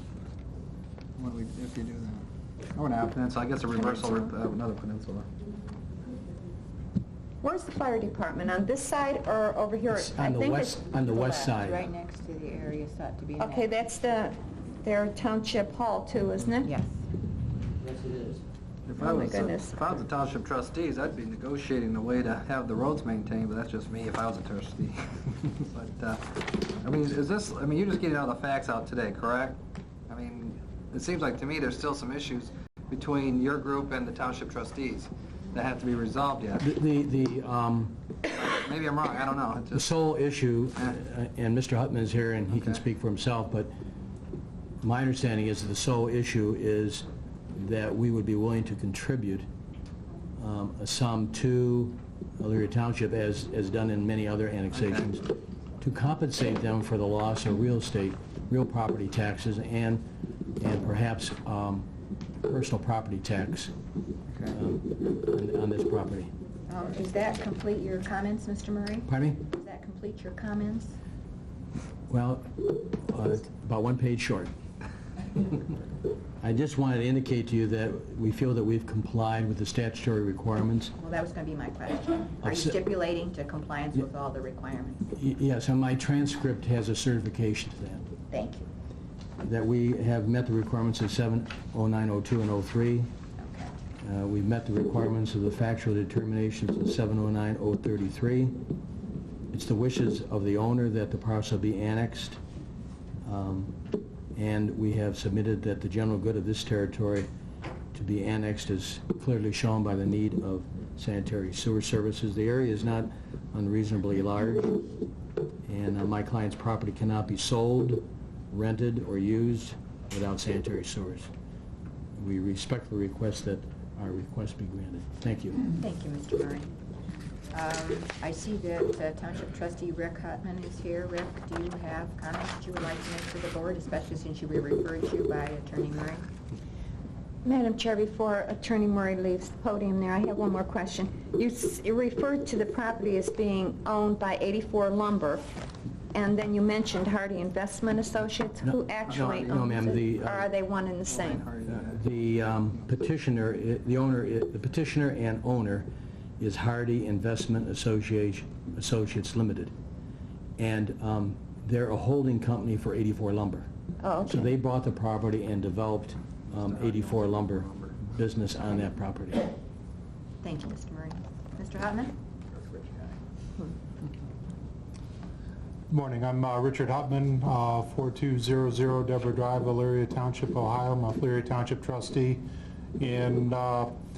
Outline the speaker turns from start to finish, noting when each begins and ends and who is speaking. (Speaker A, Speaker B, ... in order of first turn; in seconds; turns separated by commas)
Speaker A: 1.2-5.3, Speaker B: 3.8-4.3, Speaker B: 7.4-11.5, Speaker C: 9.9-11.9, Speaker D: 11.1-13.7, Speaker B: 13.4-16.7, Speaker D: 16.6-17.0, Speaker A: 18.9-36.7, Speaker B: 19.0-19.7, Speaker C: 36.6-38.0, Speaker A: 38.3-39.9, Speaker C: 39.7-43.7, Speaker A: 42.5-42.8, Speaker C: 44.8-49.5, Speaker C: 50.4-61.9, Speaker A: 54.7-55.1, Speaker C: 62.4-63.7, Speaker A: 64.3-64.6, Speaker C: 64.5-66.3, Speaker D: 66.7-70.9, Speaker C: 69.1-69.5, Speaker C: 72.1-74.5, Speaker C: 76.4-80.9, Speaker D: 81.0-85.1, Speaker C: 82.4-82.8, Speaker C: 85.1-88.1, Speaker D: 88.3-88.7, Speaker C: 89.4-93.1, Speaker D: 93.4-93.7, Speaker C: 94.0-98.6, Speaker C: 99.5-102.4, Speaker C: 103.2-103.8, Speaker C: 104.3-107.3, Speaker C: 107.9-115.0, Speaker C: 115.6-121.3, Speaker C: 122.2-125.7, Speaker D: 125.8-126.7, Speaker D: 127.5-136.3, Speaker B: 137.4-145.5, Speaker B: 146.1-151.4, Speaker C: 148.6-150.4, Speaker A: 149.1-150.4, Speaker A: 151.0-152.8, Speaker C: 151.7-159.7, Speaker C: 160.6-163.7, Speaker B: 164.0-164.4, Speaker C: 164.2-169.5, Speaker A: 166.5-168.0, Speaker D: 170.4-172.1, Speaker A: 172.5-173.2, Speaker E: 175.9-183.9